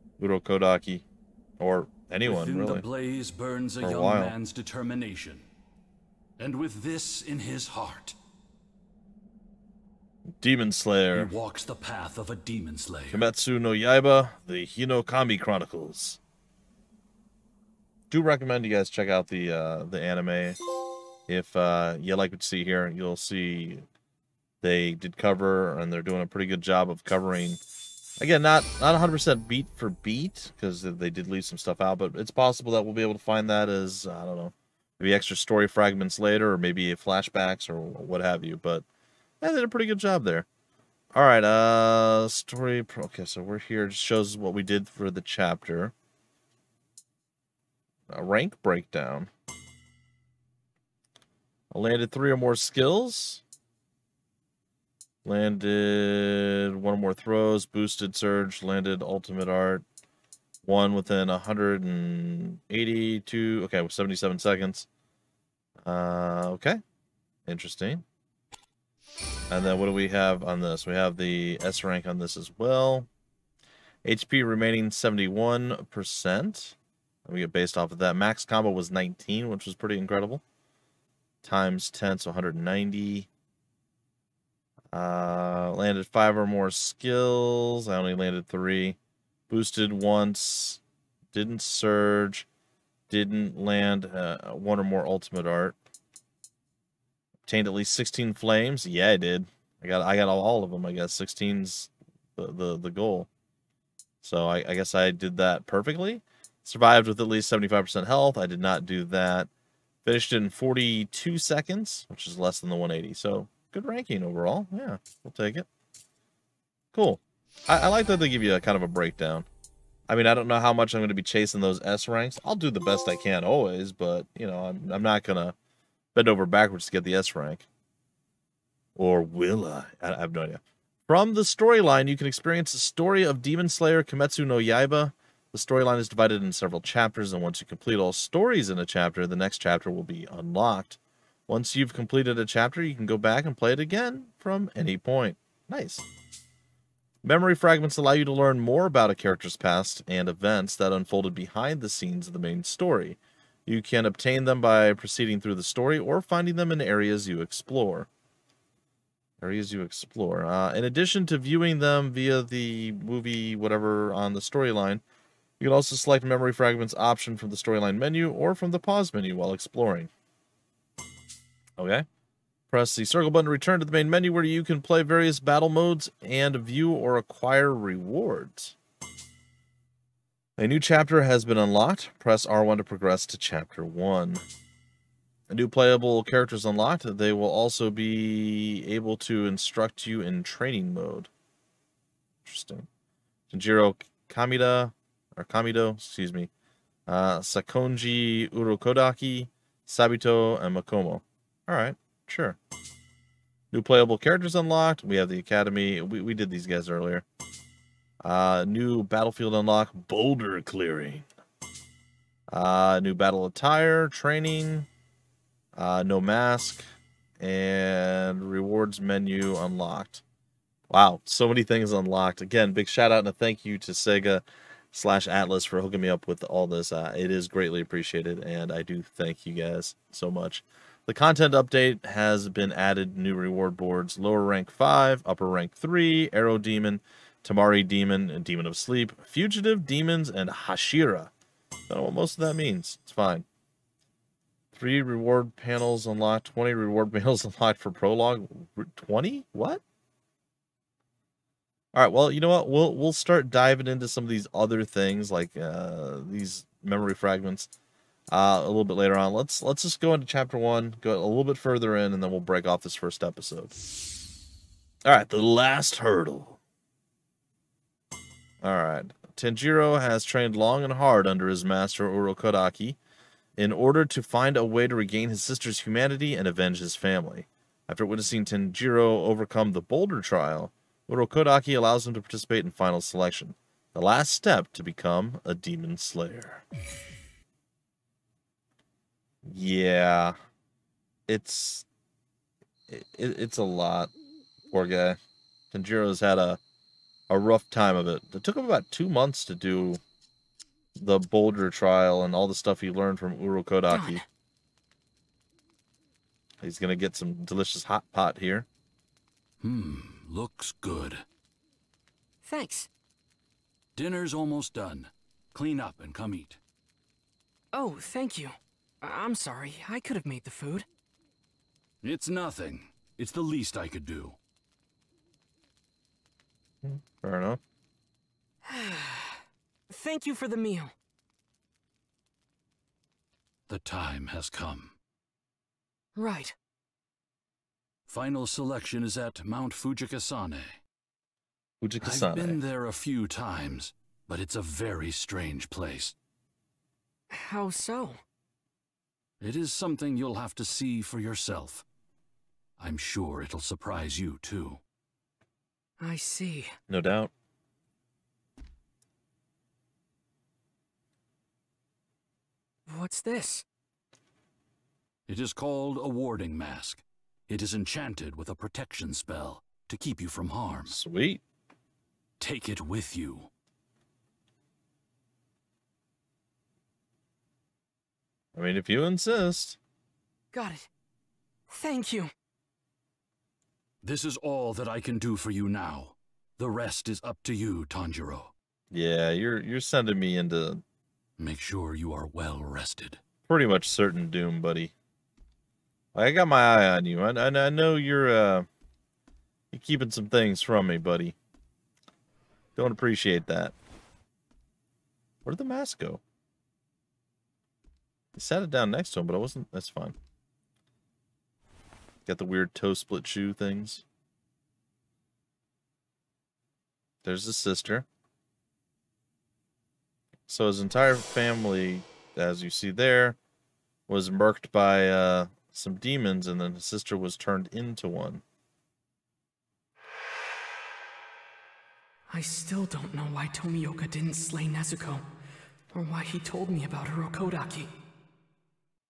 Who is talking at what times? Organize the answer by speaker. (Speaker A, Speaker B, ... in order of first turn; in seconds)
Speaker A: 0.2-1.0, 1.6-2.8, 3.8-4.3, 10.4-11.3, 13.1-16.2, 18.1-20.6, 21.3-23.9, 24.6-27.6, 28.2-38.8, 39.4-40.5, 41.1-45.9, 48.1-49.3, 51.7-53.4, 55.2-59.8, 60.6-64.9, 65.8-66.8, 67.5-68.0, 69.5-73.1, 74.0-80.4, 81.4-83.3, 84.9-89.0, 89.5-90.8, 91.3-92.5, 93.1-95.8, 97.5-103.3, 104.2-109.5, 110.0-115.7, 116.9-119.5, 120.1-125.5, 126.1-127.7, 128.9-146.0, 147.2-158.1, 159.4-165.0, 165.6-170.1, 171.8-172.1, 172.7-178.7, 180.6-184.4, 185.5-191.3, 192.4-192.9, 193.5-196.5, 197.1-202.6, 203.7-207.2, 208.2-211.3, 212.5-214.9, 215.7-216.9, 217.4-220.2, 220.9-241.3, 241.9-243.4, 244.7-249.8, 251.9-257.7, 258.3-263.7, 265.1-266.6, 268.6-273.0, 273.6-286.6, 289.4-290.3, 291.3-291.9, 292.9-294.1, 294.7-295.2, 295.7-296.6, 297.3-300.0, 300.9-304.2, 306.6-308.7, 326.8-327.6, 341.8-342.6, 356.9-357.3, 370.9-371.4, 378.5-379.8, 388.9-390.8, 393.5-394.9, 396.1-398.7, 399.7-401.3, 402.8-403.7, 405.4-406.2, 408.3-410.1, 412.2-414.0, 417.2-418.1, 420.5-423.4, 424.1-428.4
Speaker B: 2.2-5.4, 6.4-8.2, 11.1-13.2, 309.6-311.2, 313.9-316.6, 322.0-324.4, 333.7-334.9, 338.1-340.8, 342.0-346.1, 349.4-351.8, 352.8-354.8, 365.3-371.0, 372.4-373.5, 384.0-388.5, 391.4-393.2
Speaker C: 303.9-304.2, 312.4-312.9, 317.7-320.9, 328.6-330.9, 336.1-336.5, 347.3-348.2, 356.0-356.7, 362.9-363.6, 380.5-380.9, 381.7-382.3, 432.3-435.2, 435.9-437.9